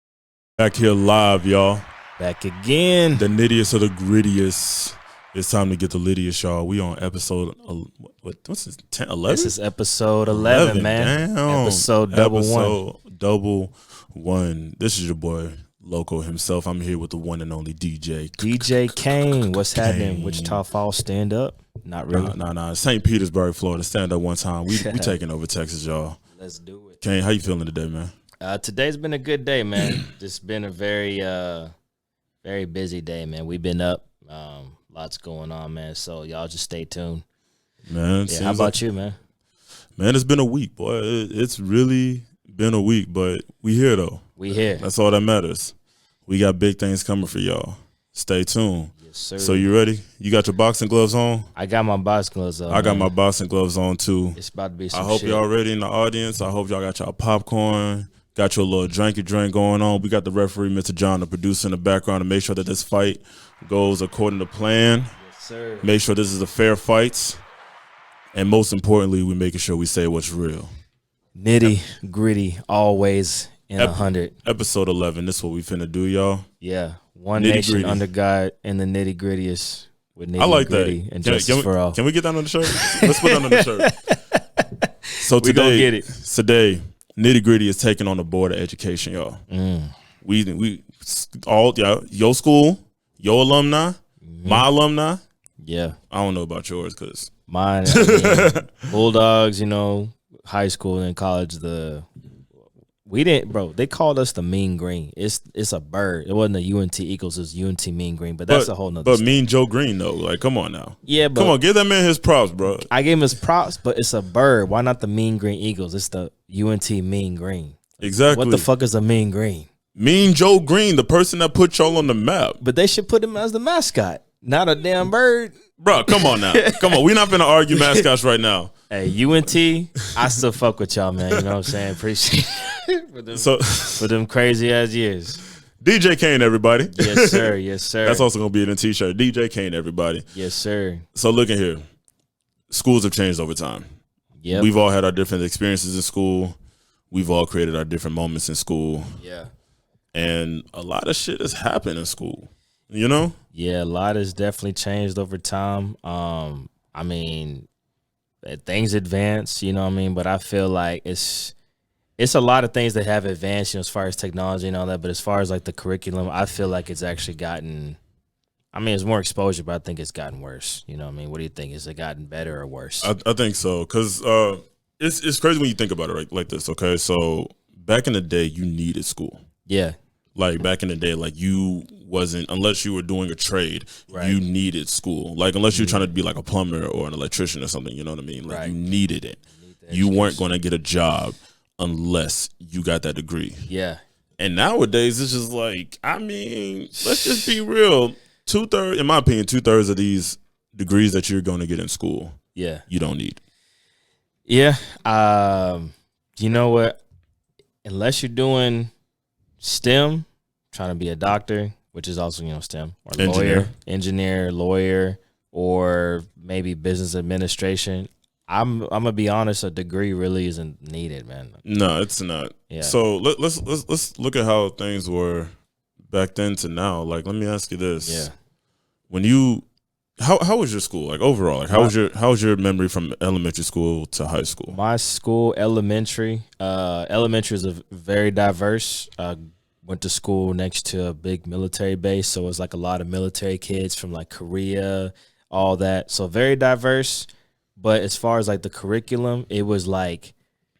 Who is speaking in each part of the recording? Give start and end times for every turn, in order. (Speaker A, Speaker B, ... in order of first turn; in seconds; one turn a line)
Speaker A: 0.6-1.8
Speaker B: 2.2-3.2
Speaker A: 3.1-9.5
Speaker B: 9.3-12.8
Speaker A: 10.3-20.6
Speaker B: 18.4-22.4
Speaker A: 22.1-26.2
Speaker B: 24.7-25.1
Speaker B: 26.3-27.0
Speaker A: 27.0-28.1
Speaker B: 28.4-31.7
Speaker B: 32.4-37.2
Speaker A: 37.9-38.8
Speaker B: 38.3-39.2
Speaker A: 40.0-45.7
Speaker B: 44.4-44.9
Speaker A: 46.3-51.5
Speaker B: 49.0-49.7
Speaker B: 51.5-53.1
Speaker A: 52.7-54.4
Speaker B: 54.3-55.4
Speaker A: 54.9-65.1
Speaker B: 65.2-65.9
Speaker A: 65.8-67.4
Speaker A: 68.3-70.7
Speaker B: 71.3-74.3
Speaker A: 73.8-76.4
Speaker B: 76.6-82.0
Speaker A: 77.3-78.0
Speaker A: 80.4-83.9
Speaker B: 82.6-86.1
Speaker A: 85.2-89.4
Speaker B: 89.5-89.9
Speaker A: 90.2-95.2
Speaker B: 94.2-94.7
Speaker B: 95.6-96.0
Speaker A: 96.1-97.3
Speaker B: 97.5-102.1
Speaker A: 97.8-98.7
Speaker B: 103.0-109.4
Speaker A: 108.5-112.9
Speaker B: 111.0-111.6
Speaker B: 112.9-119.7
Speaker A: 118.0-118.7
Speaker A: 120.0-122.6
Speaker B: 122.6-125.5
Speaker A: 125.8-128.7
Speaker B: 126.1-127.0
Speaker B: 127.7-128.0
Speaker B: 128.9-135.4
Speaker A: 133.3-134.1
Speaker A: 135.8-140.3
Speaker B: 136.9-138.3
Speaker B: 140.3-141.1
Speaker A: 141.1-141.8
Speaker A: 142.7-143.8
Speaker B: 144.4-144.7
Speaker A: 144.5-146.6
Speaker A: 147.1-149.1
Speaker B: 149.2-149.5
Speaker A: 150.1-153.4
Speaker B: 153.5-157.7
Speaker B: 158.4-161.5
Speaker B: 162.2-168.0
Speaker B: 168.7-173.1
Speaker A: 173.0-179.4
Speaker B: 179.7-179.9
Speaker A: 180.3-193.6
Speaker B: 184.1-184.4
Speaker B: 185.7-186.1
Speaker B: 188.4-188.8
Speaker B: 189.5-190.4
Speaker B: 193.7-194.0
Speaker A: 194.4-202.3
Speaker B: 197.1-197.5
Speaker B: 202.5-202.8
Speaker A: 202.9-203.4
Speaker B: 204.4-207.0
Speaker B: 207.8-208.9
Speaker B: 209.6-221.6
Speaker A: 213.2-213.7
Speaker A: 221.6-225.5
Speaker B: 222.7-223.0
Speaker A: 226.1-228.3
Speaker B: 228.0-228.3
Speaker A: 229.1-229.6
Speaker A: 230.2-234.8
Speaker B: 234.7-250.3